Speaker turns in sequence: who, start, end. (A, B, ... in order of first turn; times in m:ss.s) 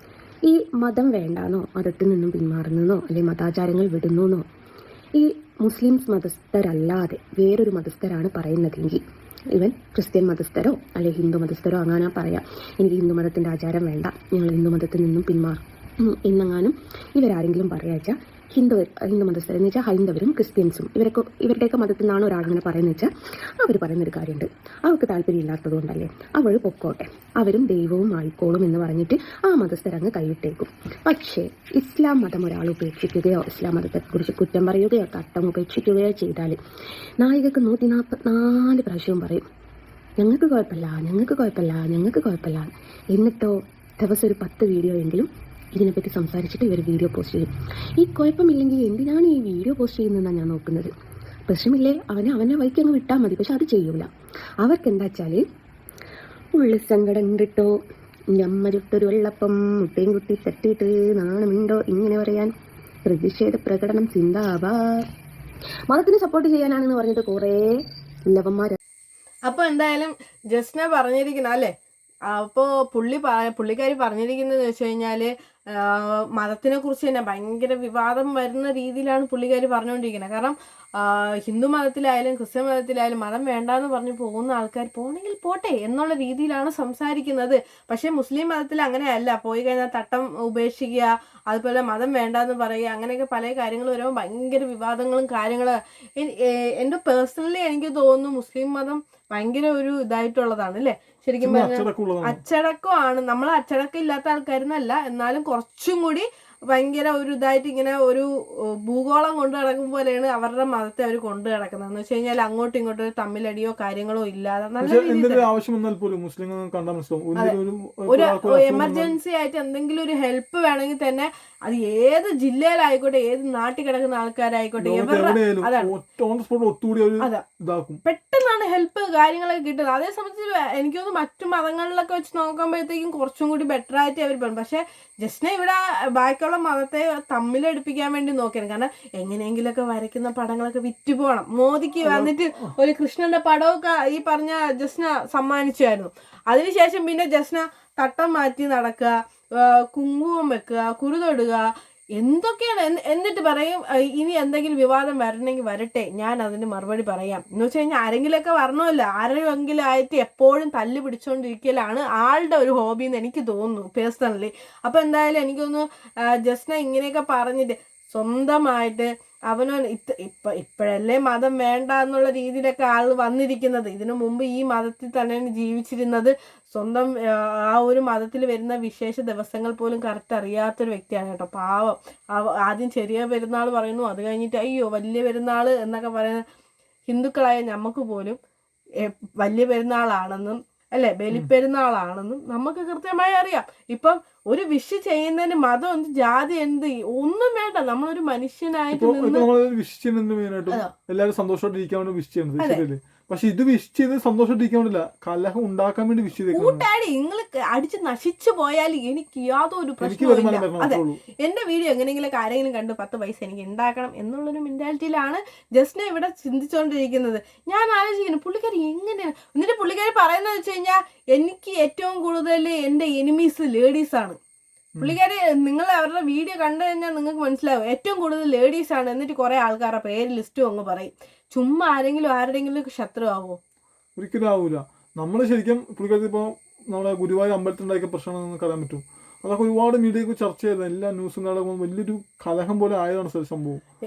0:00.5-0:04.4 A
0:05.1-0:09.0 A
0:09.5-0:36.6 A
0:37.2-0:39.4 A
0:40.2-0:50.9 A
0:51.5-0:54.1 A
0:54.6-0:55.4 A
0:56.6-0:57.8 A
0:58.3-1:02.5 A
1:03.0-1:05.0 A
1:05.9-1:08.8 A
1:09.5-1:11.7 B
1:12.3-1:48.3 B
1:41.4-1:42.4 C
1:48.8-1:55.5 B
1:54.8-1:59.1 C
1:58.1-2:05.9 B
2:04.8-2:08.0 C
2:08.0-3:06.4 B
2:22.0-2:22.7 C
3:07.1-3:08.4 B
3:09.0-3:19.5 B
3:18.9-3:26.8 C
3:26.5-3:44.4 B
3:30.0-3:31.2 C
3:45.0-3:53.6 B
3:54.2-4:03.8 C